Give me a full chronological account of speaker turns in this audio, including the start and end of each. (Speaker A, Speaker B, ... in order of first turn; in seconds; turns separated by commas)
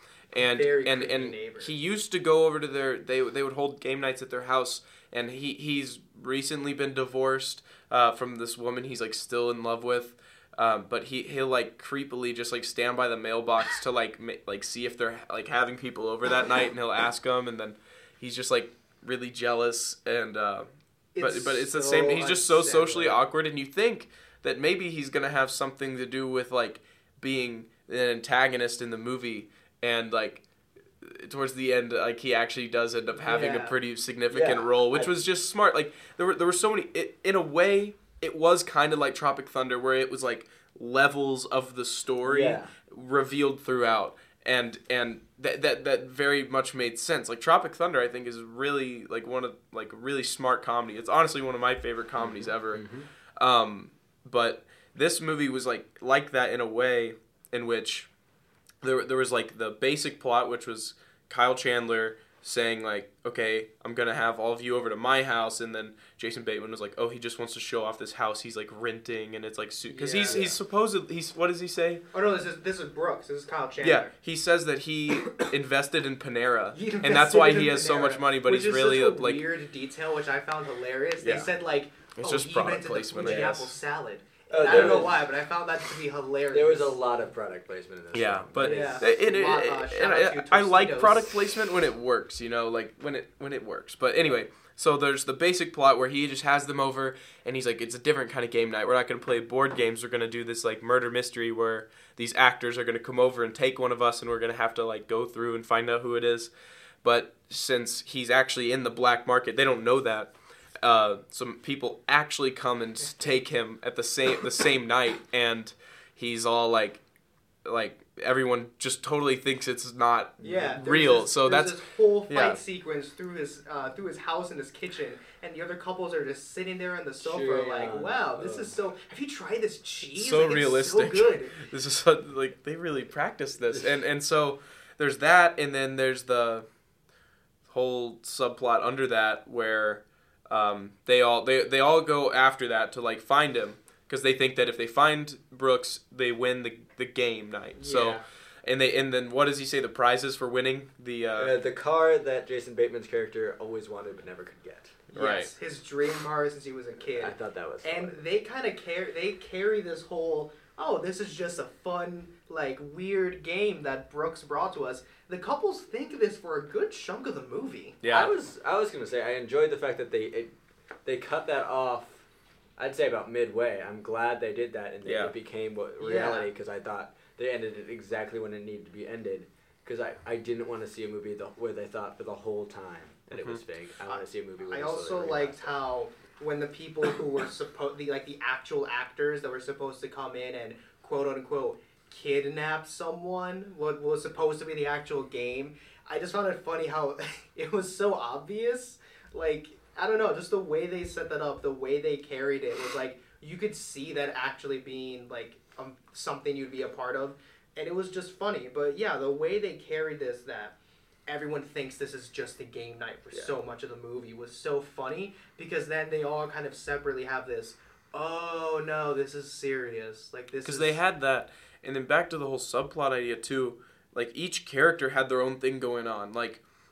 Speaker A: 0.3-20.7, Speaker B: 0.4-1.7, Speaker B: 21.1-23.2, Speaker A: 21.2-30.4, Speaker A: 31.0-58.1, Speaker B: 33.2-33.8, Speaker C: 34.3-35.2, Speaker C: 42.2-42.7, Speaker C: 52.2-53.1, Speaker A: 58.8-72.0, Speaker B: 69.9-70.5, Speaker C: 70.2-70.6, Speaker B: 72.1-74.1, Speaker A: 73.8-79.5, Speaker B: 76.7-87.0, Speaker A: 81.2-81.5, Speaker A: 82.2-83.8, Speaker C: 83.2-83.5, Speaker C: 84.5-85.2, Speaker A: 84.7-85.0, Speaker C: 86.5-89.0, Speaker A: 88.1-106.5, Speaker B: 88.6-91.4, Speaker A: 107.0-117.0, Speaker A: 117.7-122.6, Speaker B: 120.4-131.6, Speaker C: 120.4-120.7, Speaker C: 127.2-128.7, Speaker A: 130.2-136.7, Speaker A: 137.7-151.5, Speaker B: 147.8-148.2, Speaker C: 151.4-155.1, Speaker A: 155.1-155.5, Speaker B: 155.2-168.0, Speaker C: 157.1-158.2, Speaker A: 168.0-168.3, Speaker C: 168.1-170.5, Speaker C: 171.1-172.2, Speaker C: 172.8-185.7, Speaker A: 175.1-175.3, Speaker B: 176.0-176.5, Speaker A: 183.3-183.6, Speaker B: 184.1-221.0, Speaker A: 220.7-226.6